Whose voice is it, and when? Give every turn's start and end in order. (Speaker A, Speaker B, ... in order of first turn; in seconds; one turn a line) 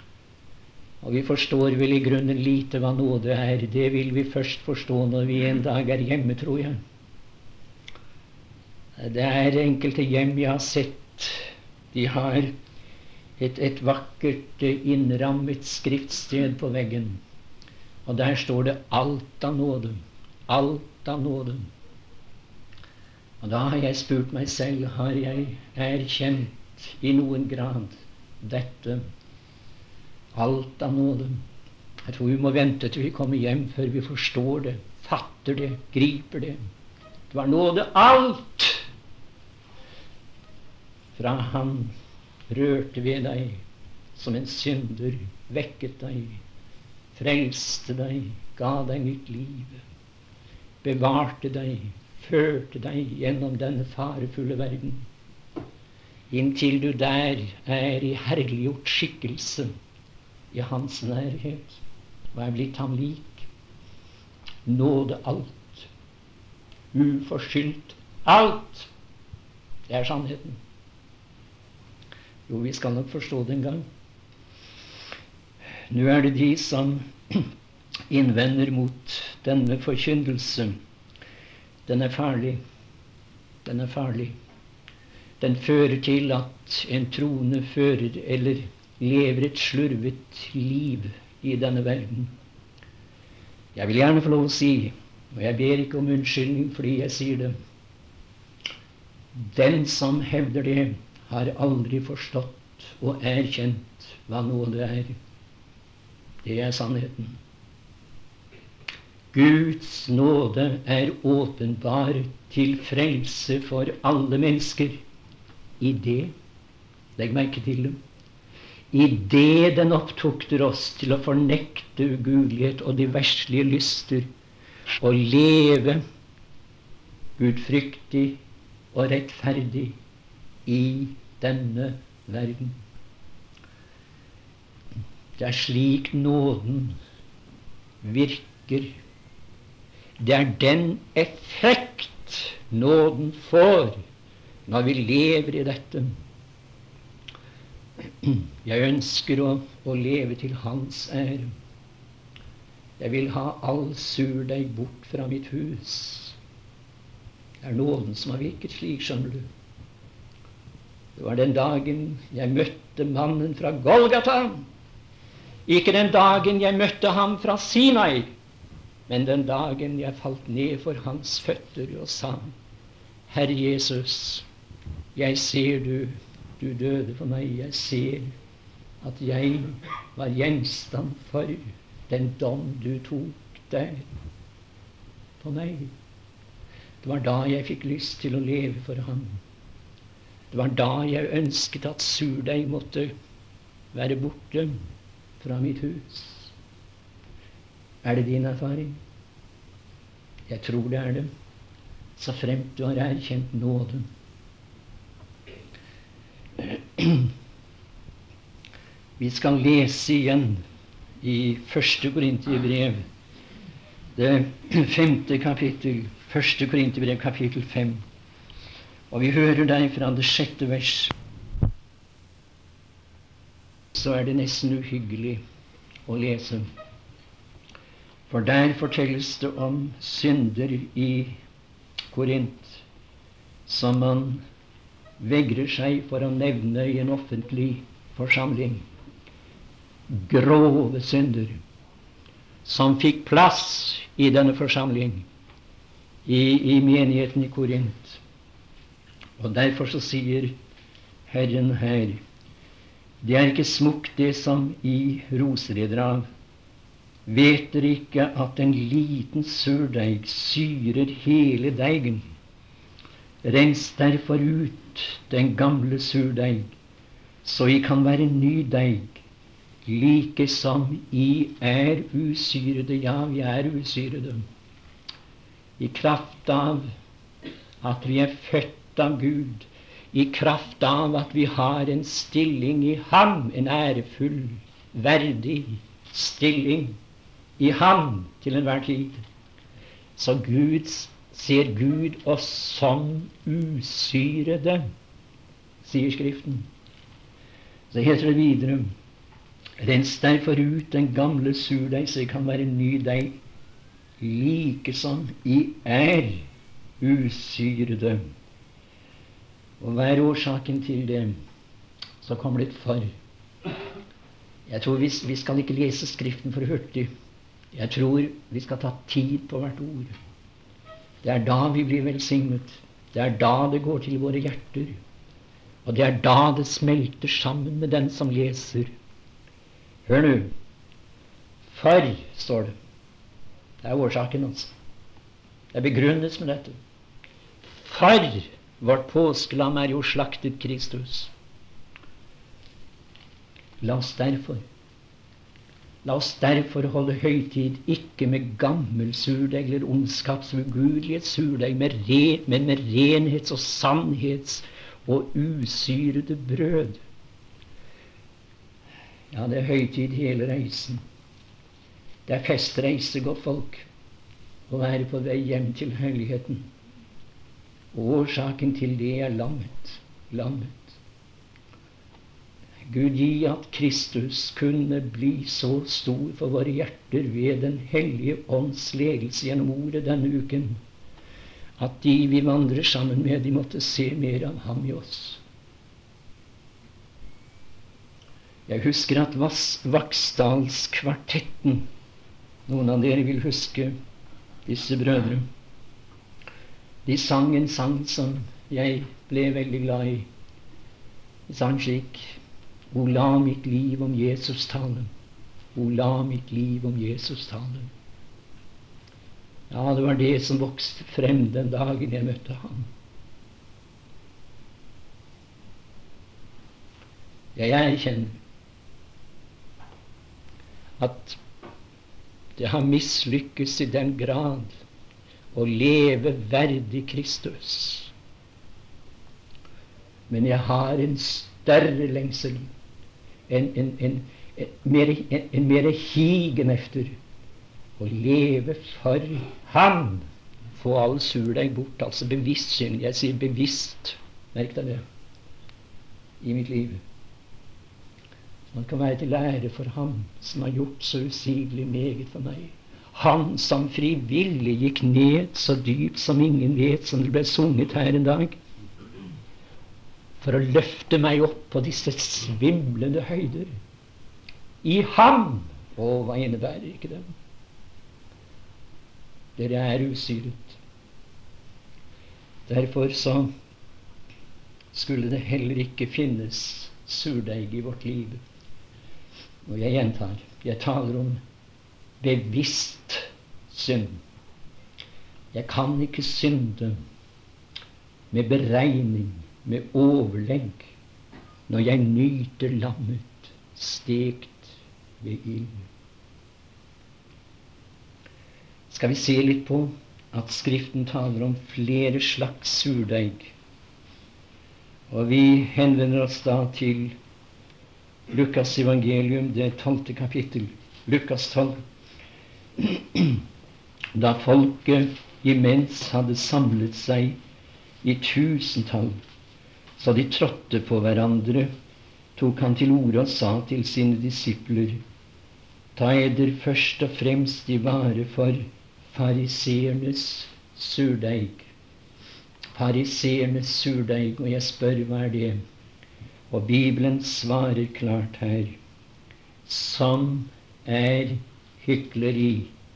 Speaker A: 1.0-6.8
Speaker A: 9.0-12.5
Speaker A: 13.4-17.2
Speaker A: 18.0-21.7
Speaker A: 23.4-29.1
Speaker A: 30.3-31.4
Speaker A: 32.0-36.6
Speaker A: 37.3-38.8
Speaker A: 41.1-41.9
Speaker A: 42.5-43.6
Speaker A: 44.1-46.4
Speaker A: 47.1-49.8
Speaker A: 50.8-55.0
Speaker A: 56.3-59.7
Speaker A: 60.5-61.8
Speaker A: 62.3-63.5
Speaker A: 64.7-65.9
Speaker A: 66.9-68.9
Speaker A: 69.9-70.6
Speaker A: 72.5-73.8
Speaker A: 75.9-77.5
Speaker A: 78.1-80.7
Speaker A: 81.9-82.6
Speaker A: 83.6-84.3
Speaker A: 85.4-92.3
Speaker A: 93.7-97.5
Speaker A: 99.4-105.1
Speaker A: 106.4-107.4
Speaker A: 109.3-115.0
Speaker A: 115.8-116.3
Speaker A: 117.2-118.0
Speaker A: 118.9-124.3
Speaker A: 125.0-126.0
Speaker A: 127.4-128.4
Speaker A: 128.9-130.0
Speaker A: 130.7-132.8
Speaker A: 135.4-137.0
Speaker A: 138.0-138.9
Speaker A: 140.2-144.0
Speaker A: 144.7-146.1
Speaker A: 148.2-151.5
Speaker A: 153.0-156.4
Speaker A: 157.6-159.5
Speaker A: 161.2-164.7
Speaker A: 165.7-168.3
Speaker A: 169.1-172.5
Speaker A: 173.3-174.4
Speaker A: 175.1-178.3
Speaker A: 179.0-184.1
Speaker A: 185.4-185.9
Speaker A: 187.0-189.4
Speaker A: 190.5-193.1
Speaker A: 193.9-194.7
Speaker A: 195.4-196.5
Speaker A: 198.0-199.0
Speaker A: 200.5-201.3
Speaker A: 202.2-204.1
Speaker A: 206.6-207.3
Speaker A: 209.2-210.6
Speaker A: 211.2-213.0
Speaker A: 214.2-218.0
Speaker A: 219.1-221.1
Speaker A: 223.9-225.4
Speaker A: 226.1-226.7
Speaker A: 228.3-231.4
Speaker A: 232.1-232.8
Speaker A: 233.7-234.4
Speaker A: 235.2-238.8
Speaker A: 240.1-241.6
Speaker A: 242.6-245.2
Speaker A: 246.2-248.2
Speaker A: 249.4-250.5
Speaker A: 251.3-252.2
Speaker A: 253.2-256.2
Speaker A: 257.2-262.3
Speaker A: 263.4-266.7
Speaker A: 267.4-269.2
Speaker A: 269.9-274.4
Speaker A: 275.8-276.9
Speaker A: 277.8-287.0
Speaker A: 287.6-289.2
Speaker A: 290.1-294.9
Speaker A: 295.8-296.7
Speaker A: 297.9-298.9
Speaker A: 299.8-303.4
Speaker A: 304.2-306.4
Speaker A: 307.0-308.2
Speaker A: 309.8-311.3
Speaker A: 312.2-313.1
Speaker A: 314.7-317.1
Speaker A: 317.7-320.1
Speaker A: 321.2-325.0
Speaker A: 325.8-328.9
Speaker A: 330.1-330.5
Speaker A: 331.7-332.7
Speaker A: 333.8-334.7
Speaker A: 335.7-336.8
Speaker A: 337.7-341.3
Speaker A: 343.8-344.6
Speaker A: 346.0-357.0
Speaker A: 359.3-361.0
Speaker A: 362.3-363.9
Speaker A: 364.7-366.7
Speaker A: 367.9-371.0
Speaker A: 372.9-380.8
Speaker A: 381.8-385.4
Speaker A: 388.7-391.9
Speaker A: 392.7-393.9
Speaker A: 394.6-395.4
Speaker A: 397.1-400.3
Speaker A: 401.5-402.4
Speaker A: 402.9-405.1
Speaker A: 405.7-407.9
Speaker A: 409.7-412.9
Speaker A: 417.6-418.4
Speaker A: 421.0-421.4
Speaker A: 422.6-424.7
Speaker A: 425.5-428.1
Speaker A: 430.3-432.7
Speaker A: 433.5-437.1
Speaker A: 438.0-440.2
Speaker A: 440.8-445.0
Speaker A: 446.4-447.0
Speaker A: 448.7-458.6
Speaker A: 460.4-463.7
Speaker A: 464.8-467.3
Speaker A: 469.6-470.8
Speaker A: 472.7-473.5
Speaker A: 474.9-478.4
Speaker A: 479.6-481.4
Speaker A: 482.2-484.2
Speaker A: 485.5-487.0
Speaker A: 488.3-490.9
Speaker A: 491.7-495.9
Speaker A: 498.9-503.5
Speaker A: 505.1-507.1
Speaker A: 508.3-511.8
Speaker A: 512.8-513.4
Speaker A: 514.1-517.4
Speaker A: 518.0-519.2
Speaker A: 520.0-521.7
Speaker A: 522.4-525.0
Speaker A: 526.0-531.7
Speaker A: 532.7-535.6
Speaker A: 536.5-538.8
Speaker A: 539.6-542.7